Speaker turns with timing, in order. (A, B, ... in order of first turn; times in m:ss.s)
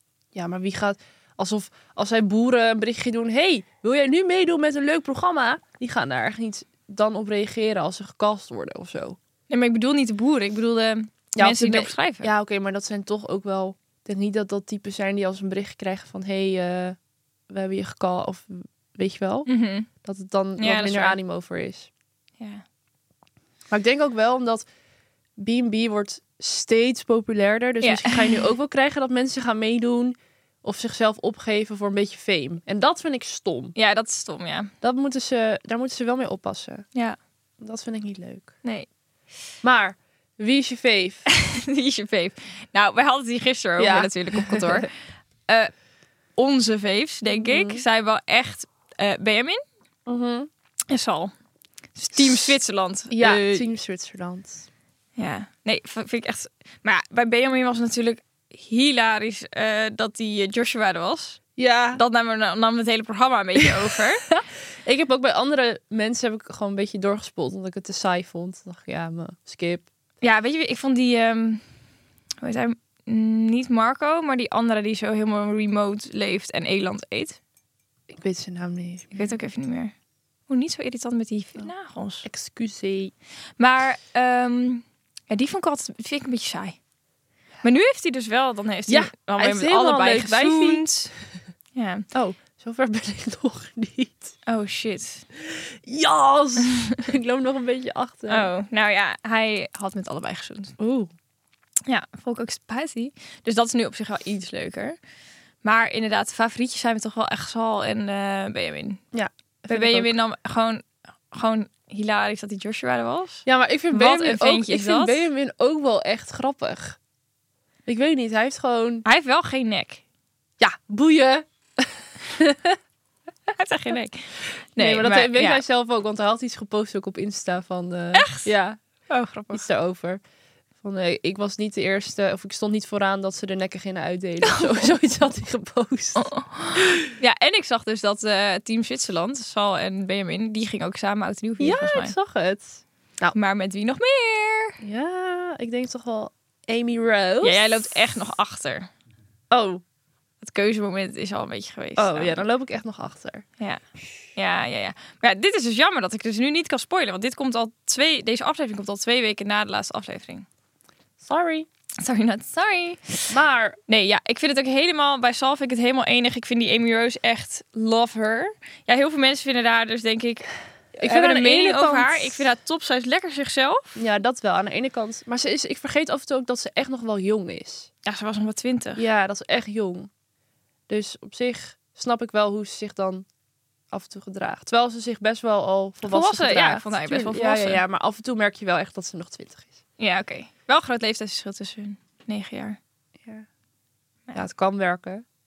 0:00.3-0:09.2 A
0:09.5-0:12.3 B
0:11.4-0:17.0 A
0:17.5-0:21.9 A
0:19.5-0:19.9 B
0:20.6-0:21.2 B
0:23.7-0:24.7 A
0:25.4-0:33.7 A
0:27.8-0:28.5 B
0:33.8-0:34.7 B
0:34.8-0:36.9 A
0:37.6-0:38.5 A
0:39.6-0:41.2 A
0:41.3-0:44.9 B
0:43.8-0:44.9 A
0:46.4-0:49.6 B
0:47.3-0:47.8 A
0:50.0-0:50.5 A
0:50.9-0:51.3 B
0:51.9-0:53.6 B
0:53.1-0:54.6 A
0:55.2-1:01.4 B
1:01.6-1:02.0 A
1:01.9-1:04.3 B
1:03.6-1:09.9 A
1:10.2-1:11.6 B
1:12.4-1:17.4 B
1:18.1-1:19.4 A
1:19.1-1:19.9 B
1:20.5-1:22.2 B
1:22.2-1:23.1 A
1:23.6-1:26.8 B
1:27.6-1:31.1 B
1:28.9-1:31.1 A
1:31.7-1:32.0 B
1:32.1-1:34.3 A
1:34.4-1:35.2 B
1:35.4-1:38.5 A
1:38.3-1:40.7 B
1:40.8-1:41.1 A
1:41.9-1:45.0 B
1:45.6-1:49.0 B
1:49.1-1:50.1 A
1:49.7-1:55.2 B
1:53.4-1:57.0 A
1:57.8-1:59.0 A
1:59.0-2:00.0 B
2:00.6-2:02.8 A
2:03.5-2:05.6 B
2:04.8-2:08.8 A
2:08.1-2:08.5 B
2:09.1-2:09.6 B
2:09.5-2:10.2 A
2:10.8-2:16.3 A
2:14.4-2:14.9 B
2:16.2-2:22.1 B
2:21.6-2:23.4 A
2:23.3-2:24.8 B
2:24.8-2:27.9 A
2:27.4-2:28.9 B
2:29.5-2:29.8 A
2:30.4-2:32.4 B
2:32.0-2:33.4 A
2:34.3-2:40.4 B
2:41.2-2:41.7 A
2:42.0-2:43.3 B
2:43.3-2:43.8 A
2:43.9-2:50.5 B
2:50.9-2:52.4 A
2:51.0-2:54.0 B
2:54.0-2:57.9 A
2:58.0-2:59.0 B
2:59.0-3:00.1 A
3:00.9-3:03.2 A
3:03.9-3:09.8 A
3:06.0-3:07.8 B
3:10.0-3:12.8 B
3:14.3-3:15.2 A